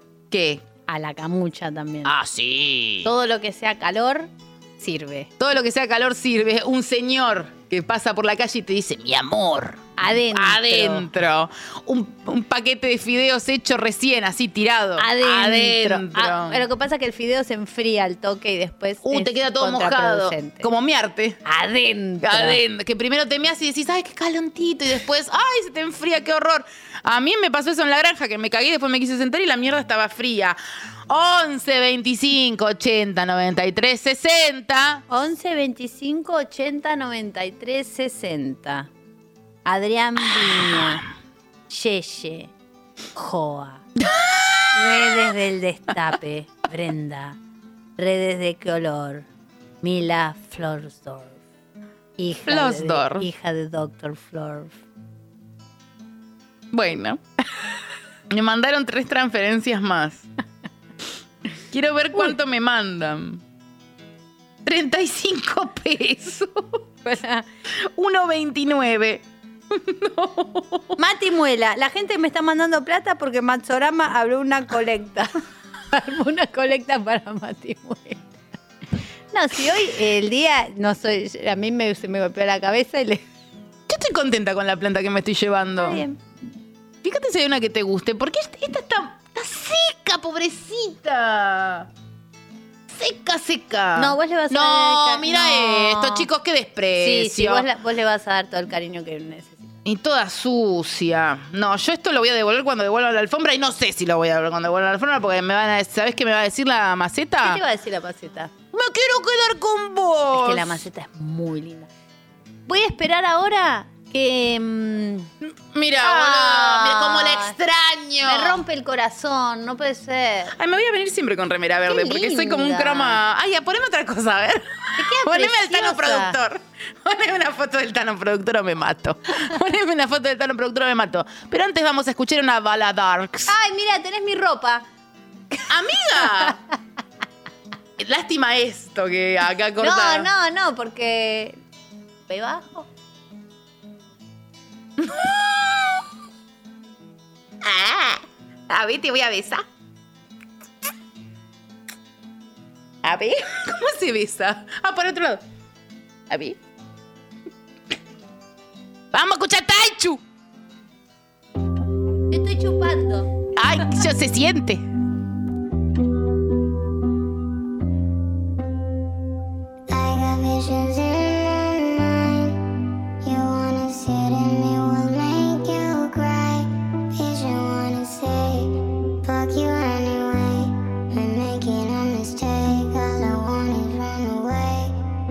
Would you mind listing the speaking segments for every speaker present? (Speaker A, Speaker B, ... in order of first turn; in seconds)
Speaker A: 0.3-0.6, 2.0-3.1, 5.4-16.6, 19.0-21.4, 22.2-30.6, 31.1-35.0, 44.0-45.1, 52.5-53.3, 56.7-57.2, 58.3-60.3, 61.7-63.4, 64.7-66.8, 67.8-71.0, 83.9-86.0, 87.0-91.9, 92.9-97.7, 99.8-107.6, 108.7-110.8, 115.5-118.6, 120.5-133.5, 135.7-136.6, 138.0-140.3, 145.0-146.1, 147.6-149.7, 153.0-155.4, 156.3-156.6, 159.1-160.2, 163.6-164.8
Speaker B: 0.9-2.1, 3.0-5.3, 10.0-11.1, 15.0-20.7, 21.4-22.6, 35.1-38.9, 39.6-41.0, 41.7-42.5, 43.1-43.9, 44.7-47.4, 48.0-49.3, 49.8-51.4, 52.2-54.8, 67.0-67.5, 71.0-75.4, 75.9-78.3, 79.3-83.2, 85.8-86.2, 94.0-96.3, 97.0-99.7, 107.4-108.5, 110.3-111.9, 112.7-115.3, 116.0-117.6, 118.2-120.5, 121.9-123.2, 125.0-126.4, 133.5-134.8, 139.8-141.6, 142.3-142.9, 162.3-163.3
Speaker C: 169.9-172.6, 173.2-178.7, 179.2-184.9